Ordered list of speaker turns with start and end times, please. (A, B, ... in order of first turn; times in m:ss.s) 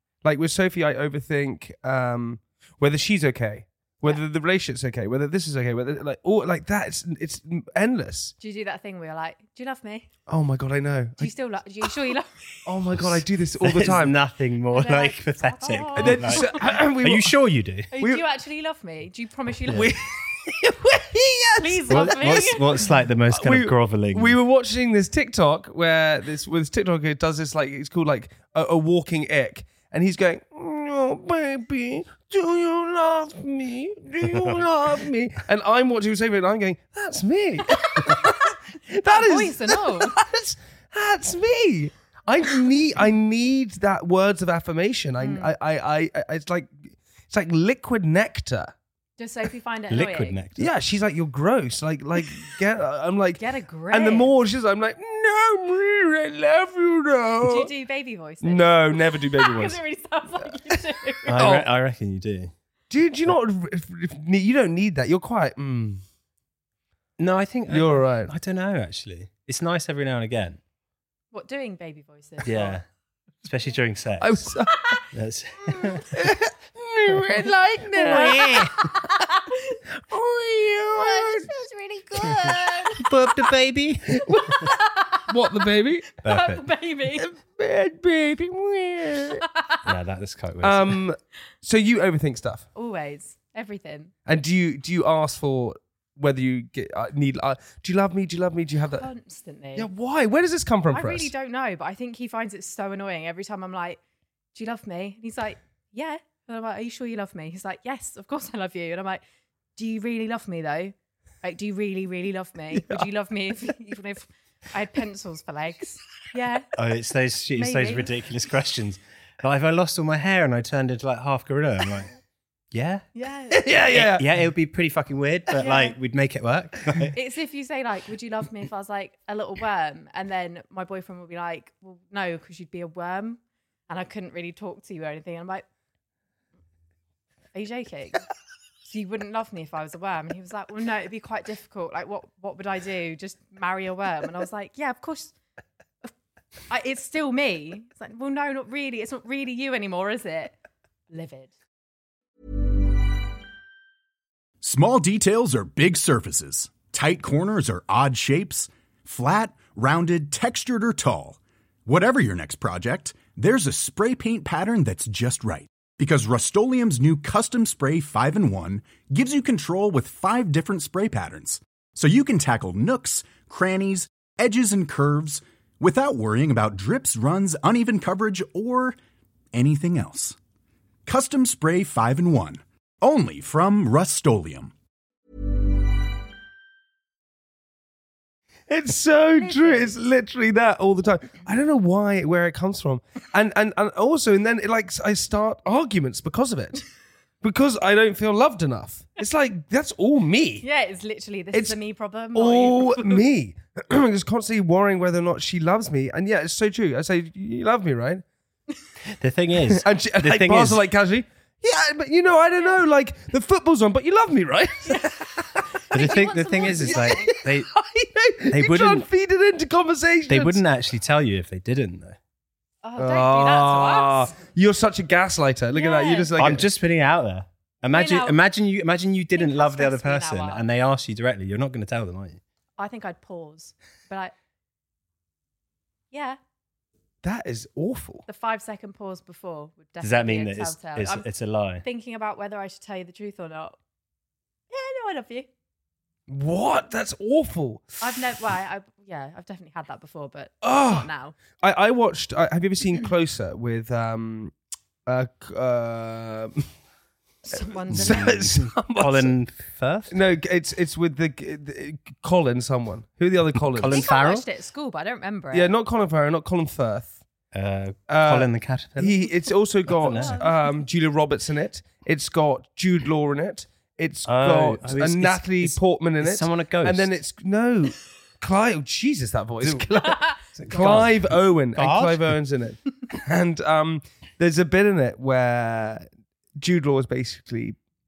0:00.2-0:08.3 A
0:08.4-0:10.1 B
0:10.3-0:11.3 A
0:11.2-0:12.6 B
0:12.6-0:14.1 A
0:12.9-0:17.9 C
0:14.7-0:16.6 B
0:16.0-0:17.4 A
0:17.9-0:19.9 B
0:19.7-0:22.4 A
0:21.6-0:22.8 B
0:21.9-0:24.4 C
0:23.3-0:48.7 A
0:34.2-0:34.6 C
0:37.8-0:38.4 B
0:39.0-0:40.1 B
0:45.2-0:45.5 B
0:49.2-0:50.4 B
0:49.9-0:50.7 C
0:50.6-0:57.7 A
0:53.4-0:54.3 B
0:57.4-1:01.4 B
0:58.4-0:59.8 A
1:01.3-1:01.6 A
1:01.3-1:02.5 C
1:02.9-1:06.0 A
1:07.2-1:10.6 C
1:07.7-1:08.3 A
1:11.3-1:12.8 B
1:12.4-1:12.8 C
1:13.4-1:14.5 C
1:14.2-1:15.0 A
1:15.1-1:16.0 C
1:15.8-1:18.7 A
1:17.9-1:18.8 C
1:18.8-1:19.8 B
1:20.1-1:21.5 A
1:20.9-1:23.0 B
1:22.2-1:24.6 C
1:23.0-1:23.4 A
1:24.1-1:24.7 A
1:24.5-1:25.4 B
1:25.3-1:26.2 A
1:26.2-1:26.6 C
1:26.2-1:27.3 B
1:27.2-1:29.4 A
1:29.5-1:29.8 B
1:29.8-1:31.0 C
1:30.6-1:32.6 A
1:32.8-1:34.1 B
1:34.2-1:39.0 A
1:38.9-1:39.9 B
1:39.8-1:41.3 A
1:40.9-1:44.0 B
1:44.5-1:49.2 B
1:49.8-1:56.7 B
1:52.7-1:53.1 A
1:56.8-2:02.1 C
1:57.5-1:58.1 B
2:02.7-2:03.0 C
2:03.1-2:03.8 B
2:03.5-2:04.3 A
2:03.9-2:07.1 C
2:05.6-2:06.0 B
2:07.1-2:15.6 B
2:17.5-2:18.2 B
2:18.8-2:25.3 B
2:26.7-2:30.5 B
2:31.1-2:31.5 B
2:34.6-2:59.0 D
2:59.5-3:00.4 D
3:01.0-3:04.7 D
3:08.7-3:16.8 A
3:09.4-3:10.0 B
3:17.4-3:20.6 A
3:20.6-3:23.2 B
3:22.4-3:28.2 A
3:29.1-3:30.8 C
3:29.7-3:35.6 A
3:34.9-3:37.3 B
3:35.9-3:37.7 C
3:36.7-3:40.6 A
3:38.5-3:39.0 C
3:40.3-3:42.2 C
3:42.8-3:44.3 B
3:43.0-3:46.6 A
3:45.7-3:46.3 B
3:46.4-3:52.4 C
3:47.9-3:48.4 B
3:49.3-3:50.6 B
3:52.8-3:54.3 B
3:56.1-3:56.4 B
3:57.2-3:58.2 A
3:58.3-4:01.2 B
4:00.0-4:01.8 C
4:01.8-4:03.8 B
4:04.7-4:05.5 B
4:06.3-4:08.0 A
4:08.0-4:11.4 B
4:10.6-4:14.5 A
4:15.0-4:16.7 A
4:17.4-4:18.4 B
4:17.9-4:19.4 A
4:17.9-4:20.2 C
4:20.1-4:24.0 A
4:23.6-4:24.5 C
4:23.9-4:25.7 B
4:25.5-4:27.2 A
4:27.5-4:29.3 C
4:28.1-4:46.0 A
4:29.9-4:30.4 C
4:30.0-4:30.6 B
4:34.2-4:37.1 C
4:40.0-4:40.4 B
4:40.5-4:42.4 C
4:46.6-4:47.8 A